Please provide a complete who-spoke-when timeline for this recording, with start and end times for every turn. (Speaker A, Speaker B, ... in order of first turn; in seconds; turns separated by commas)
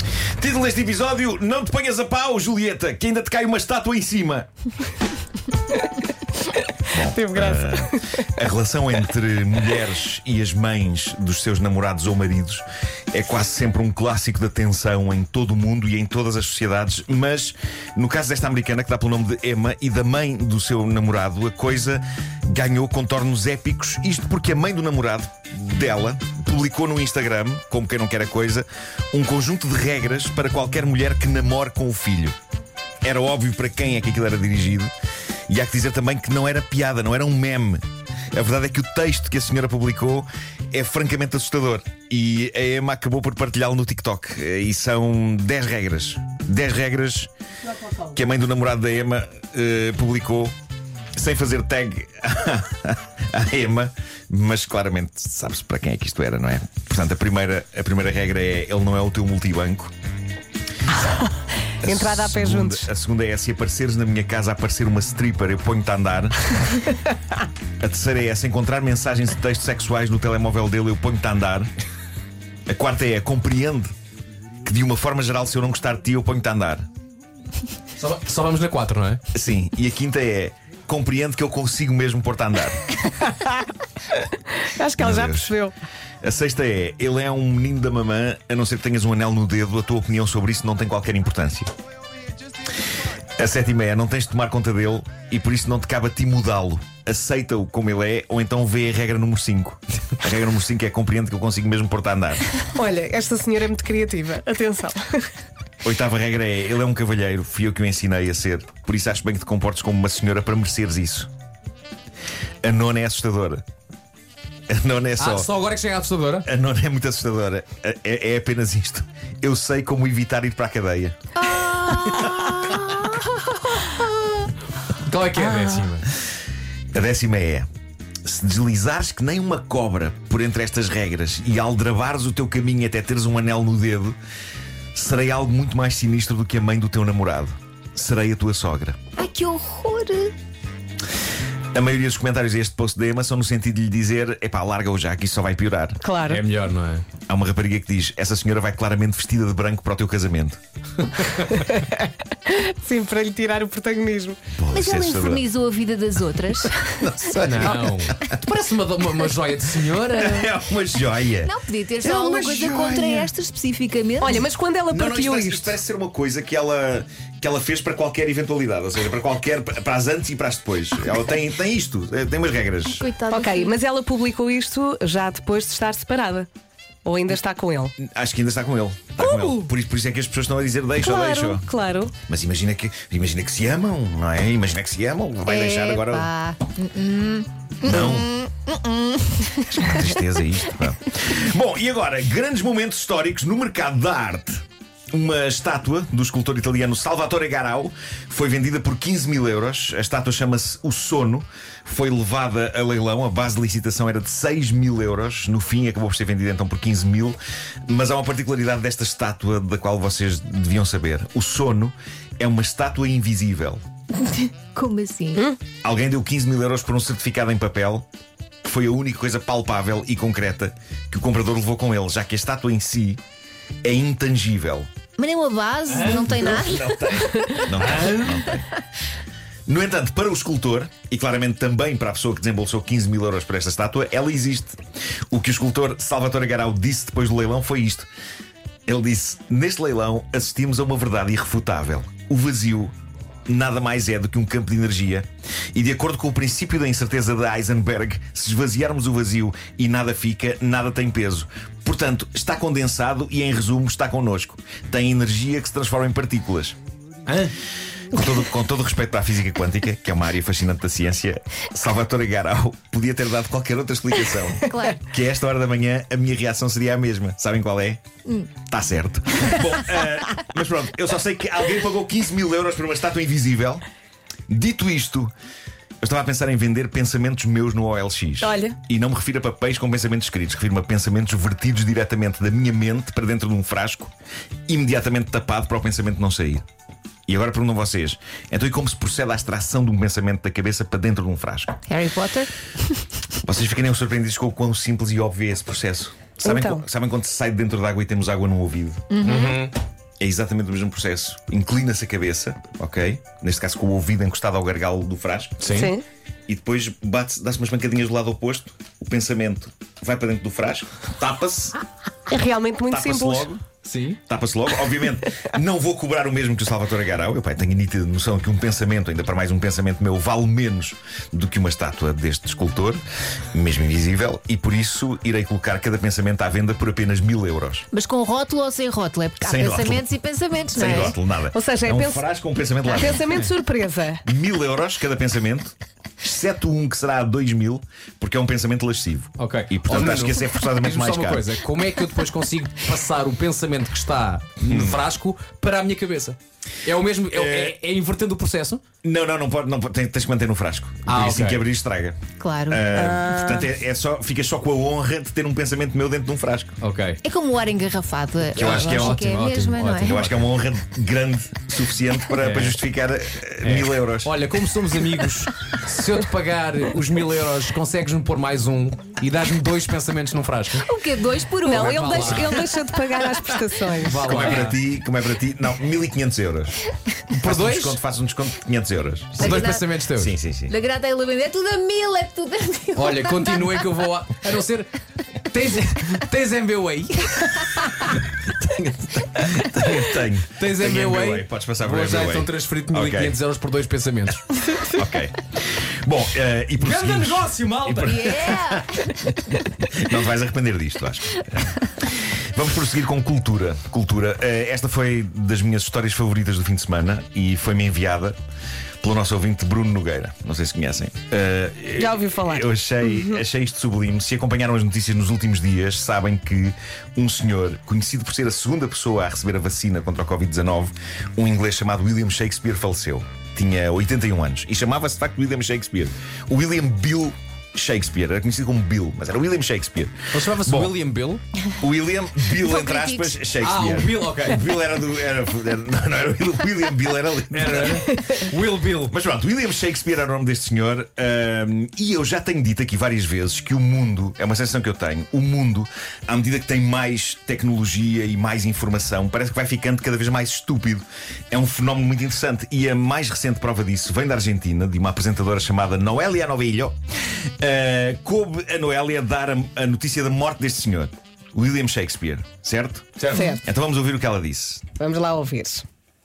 Speaker A: 0.4-4.5, Speaker A: 6.9-32.4, Speaker B: 7.0-8.0, Speaker A: 33.0-34.9, Speaker A: 35.5-37.8, Speaker A: 38.3-47.3, Speaker A: 47.9-50.5, Speaker A: 51.2-59.9, Speaker B: 61.0-62.9, Speaker A: 61.8-66.5, Speaker A: 67.8-71.7, Speaker A: 72.7-73.9, Speaker A: 74.6-76.8, Speaker C: 78.0-79.2, Speaker A: 79.3-82.9, Speaker B: 83.2-83.6, Speaker B: 84.6-85.8, Speaker A: 85.0-85.5, Speaker A: 86.2-91.7, Speaker A: 93.4-102.5, Speaker B: 102.7-105.3, Speaker A: 105.8-111.3, Speaker A: 112.6-113.6, Speaker A: 114.7-115.5, Speaker C: 115.2-116.5, Speaker A: 116.5-121.2, Speaker D: 121.5-123.9, Speaker A: 122.2-122.5, Speaker C: 125.0-126.1, Speaker A: 126.9-127.7, Speaker A: 128.2-134.2, Speaker A: 134.9-139.0, Speaker D: 139.2-140.3, Speaker A: 141.7-146.0, Speaker B: 146.0-146.4, Speaker C: 146.3-147.1, Speaker A: 147.3-150.6, Speaker C: 151.0-151.4, Speaker B: 151.5-154.4, Speaker A: 154.6-155.4, Speaker D: 154.7-157.1, Speaker A: 157.0-158.3, Speaker C: 157.4-160.5, Speaker A: 160.2-163.3, Speaker D: 161.4-164.5, Speaker B: 164.2-165.8, Speaker A: 164.9-173.1, Speaker D: 172.9-173.7, Speaker B: 173.3-176.5, Speaker B: 177.1-177.9, Speaker A: 178.0-181.7, Speaker B: 179.2-179.7, Speaker B: 181.0-182.1, Speaker A: 182.2-186.3, Speaker D: 185.4-189.9, Speaker A: 187.8-188.3, Speaker A: 189.7-213.8, Speaker D: 214.2-215.4, Speaker A: 215.8-218.1, Speaker A: 218.6-223.2, Speaker A: 223.8-224.9, Speaker D: 225.2-227.6, Speaker A: 225.9-228.7, Speaker C: 227.8-228.3, Speaker A: 229.7-234.8, Speaker A: 235.3-238.1, Speaker A: 238.9-242.9, Speaker A: 243.5-256.8, Speaker C: 257.3-257.5, Speaker A: 258.1-268.0, Speaker D: 264.6-265.0, Speaker A: 268.6-273.8, Speaker A: 274.5-275.3, Speaker A: 276.0-284.1, Speaker B: 278.4-278.8, Speaker A: 284.7-286.6, Speaker A: 287.3-291.8, Speaker D: 291.9-293.1, Speaker A: 293.4-299.3, Speaker B: 296.4-296.8, Speaker D: 299.1-299.6, Speaker C: 299.2-299.7, Speaker A: 300.2-305.6, Speaker C: 305.6-305.9, Speaker B: 305.7-306.0, Speaker A: 306.5-311.8, Speaker B: 312.3-313.5, Speaker A: 312.9-313.6, Speaker C: 313.8-314.2, Speaker A: 314.3-327.9, Speaker D: 327.9-331.2, Speaker A: 329.4-330.1, Speaker A: 330.7-333.3, Speaker B: 331.5-332.2, Speaker B: 332.9-334.2, Speaker A: 334.2-341.5, Speaker C: 339.4-348.8, Speaker A: 344.7-345.0, Speaker A: 347.3-347.8, Speaker A: 349.0-356.8, Speaker C: 351.1-351.6, Speaker D: 352.4-353.6, Speaker B: 353.0-353.3, Speaker C: 356.8-357.2, Speaker D: 357.2-360.2, Speaker A: 358.6-359.2, Speaker C: 358.6-360.5, Speaker A: 360.0-364.3, Speaker C: 362.4-362.8, Speaker C: 363.6-370.9, Speaker D: 370.8-372.9, Speaker B: 371.6-374.2, Speaker C: 371.7-372.5, Speaker C: 374.0-374.8, Speaker A: 374.2-376.8, Speaker C: 377.3-378.0, Speaker A: 377.4-379.6, Speaker D: 379.4-379.9, Speaker C: 379.4-380.3, Speaker A: 380.1-380.7, Speaker D: 380.7-383.7, Speaker C: 383.0-384.9, Speaker C: 385.5-388.1, Speaker A: 388.7-393.4, Speaker C: 390.6-394.5, Speaker A: 394.9-398.8, Speaker C: 396.8-398.6, Speaker D: 398.1-399.2, Speaker A: 399.8-408.4, Speaker A: 409.0-430.9, Speaker B: 412.0-413.4, Speaker C: 430.3-431.4, Speaker A: 431.8-438.3, Speaker D: 432.5-433.4, Speaker C: 433.6-434.6, Speaker C: 437.5-439.1, Speaker A: 439.0-457.0, Speaker A: 457.6-463.1, Speaker C: 463.2-463.4, Speaker B: 463.3-463.6, Speaker A: 463.6-464.9, Speaker B: 465.0-465.9